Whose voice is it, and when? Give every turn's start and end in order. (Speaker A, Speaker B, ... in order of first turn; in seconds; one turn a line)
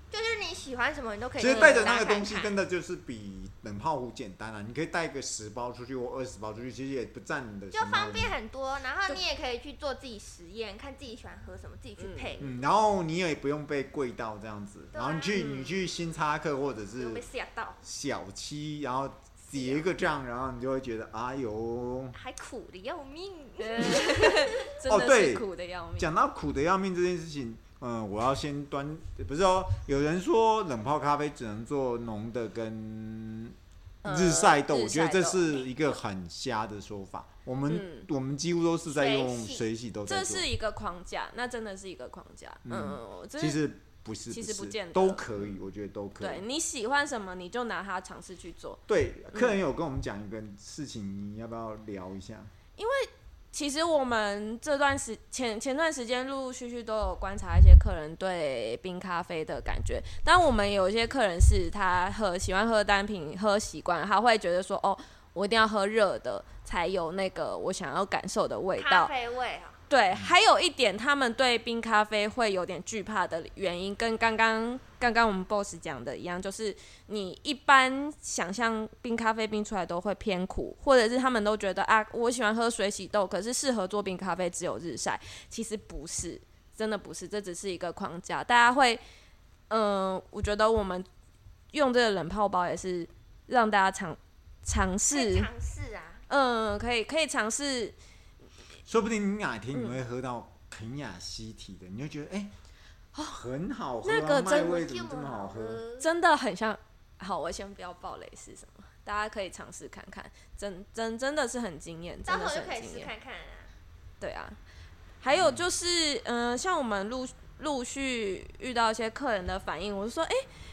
Speaker A: 0.1-2.6
Speaker B: 1.4-8.4
Speaker C: 1.5-1.8
Speaker A: 7.7-12.6
Speaker C: 12.0-12.3
Speaker B: 12.4-17.2
Speaker A: 14.9-15.5
Speaker C: 15.3-15.8
Speaker A: 16.9-17.8
Speaker B: 17.8-22.2
Speaker A: 19.5-19.9
Speaker A: 22.1-24.5
Speaker C: 23.6-26.1
Speaker B: 24.8-40.5
Speaker C: 34.0-35.7
Speaker C: 37.7-38.1
Speaker A: 38.9-39.6
Speaker C: 40.1-43.6
Speaker B: 42.6-46.4
Speaker C: 44.3-45.5
Speaker C: 46.2-48.8
Speaker B: 48.9-52.5
Speaker C: 52.8-69.1
Speaker A: 68.8-69.8
Speaker C: 69.9-89.0
Speaker C: 89.7-91.1
Speaker C: 91.7-95.5
Speaker A: 95.1-96.2
Speaker C: 96.3-98.0
Speaker B: 98.9-102.5
Speaker C: 99.7-100.0
Speaker B: 103.2-105.8
Speaker C: 104.0-104.7
Speaker A: 104.4-106.1
Speaker C: 106.0-113.1
Speaker A: 112.3-113.7
Speaker C: 114.2-114.6
Speaker C: 115.2-120.4
Speaker B: 115.3-115.7